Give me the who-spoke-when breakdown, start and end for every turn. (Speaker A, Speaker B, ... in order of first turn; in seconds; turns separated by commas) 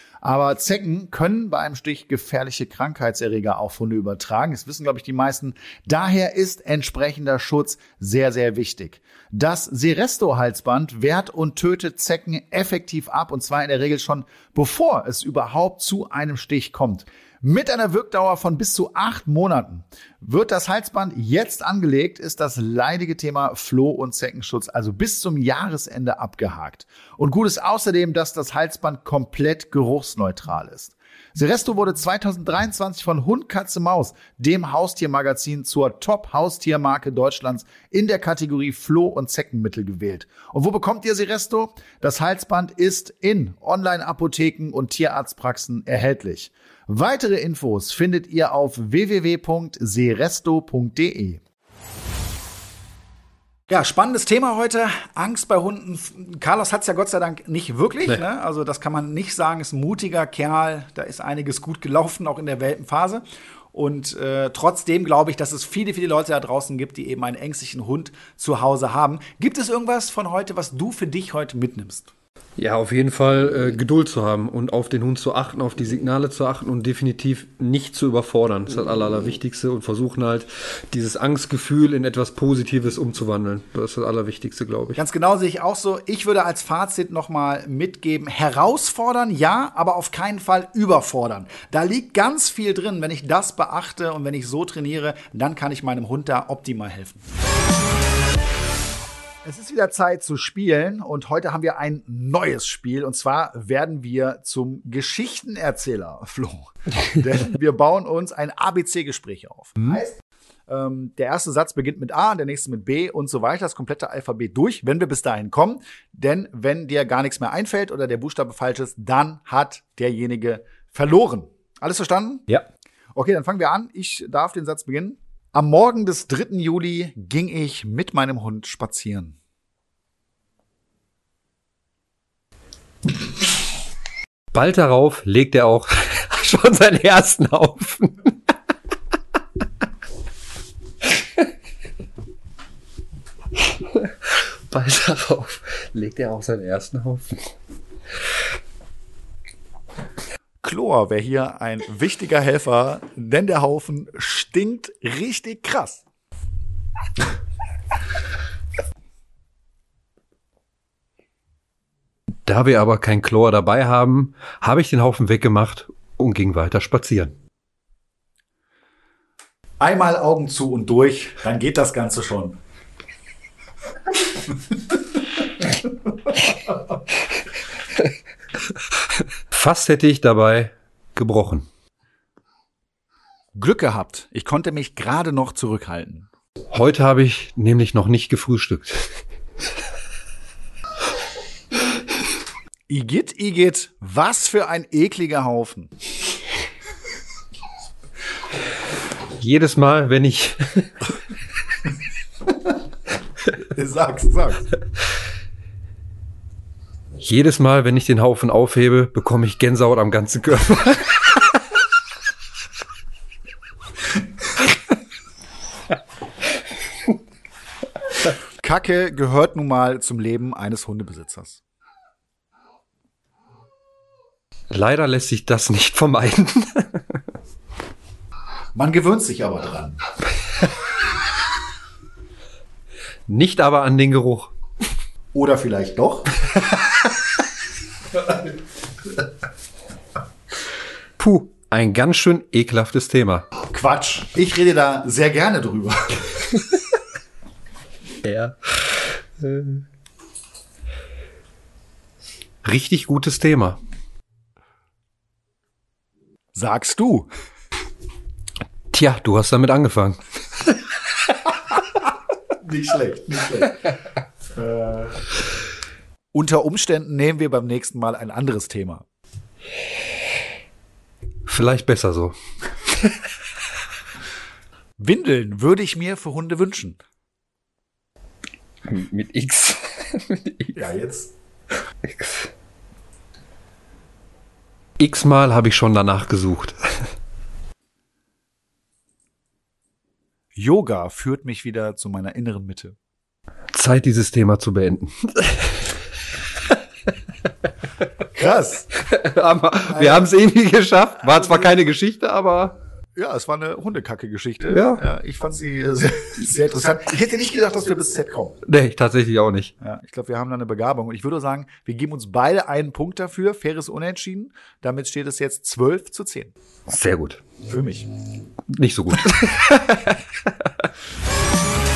Speaker A: 0.2-51.4, Speaker A: 53.7-63.2, Speaker A: 63.7-72.1, Speaker B: 72.6-85.0, Speaker A: 85.0-97.2, Speaker A: 99.4-122.5, Speaker A: 123.2-129.4, Speaker B: 134.5-138.5, Speaker B: 143.9-147.5, Speaker A: 150.6-156.1, Speaker B: 162.5-167.3, Speaker A: 169.8-172.6, Speaker B: 179.5-181.7, Speaker A: 183.6-186.3, Speaker B: 186.7-189.1, Speaker A: 192.9-195.9, Speaker B: 199.4-201.1, Speaker A: 203.7-204.7, Speaker B: 207.2-211.5, Speaker A: 218.6-221.6, Speaker B: 224.7-227.2, Speaker A: 228.8-230.0, Speaker B: 233.3-234.5, Speaker A: 235.3-236.3, Speaker B: 236.7-236.9, Speaker B: 241.2-243.5, Speaker A: 243.7-246.4, Speaker B: 248.2-249.8, Speaker B: 252.6-253.8, Speaker A: 256.5-257.3, Speaker B: 258.9-260.8, Speaker A: 262.6-263.8, Speaker A: 264.5-265.2, Speaker A: 266.3-269.1, Speaker B: 271.5-273.2, Speaker A: 275.0-277.0, Speaker B: 278.9-280.8, Speaker A: 280.8-281.3, Speaker B: 282.0-282.5, Speaker B: 285.0-287.1, Speaker A: 290.6-293.0, Speaker B: 293.7-296.0, Speaker A: 298.3-298.9, Speaker B: 298.9-302.8, Speaker A: 299.9-300.3, Speaker A: 301.2-301.9, Speaker A: 303.2-308.6, Speaker B: 304.7-305.1, Speaker B: 308.7-309.7, Speaker A: 309.8-316.5, Speaker B: 316.9-317.4, Speaker A: 317.7-318.1, Speaker B: 318.7-320.7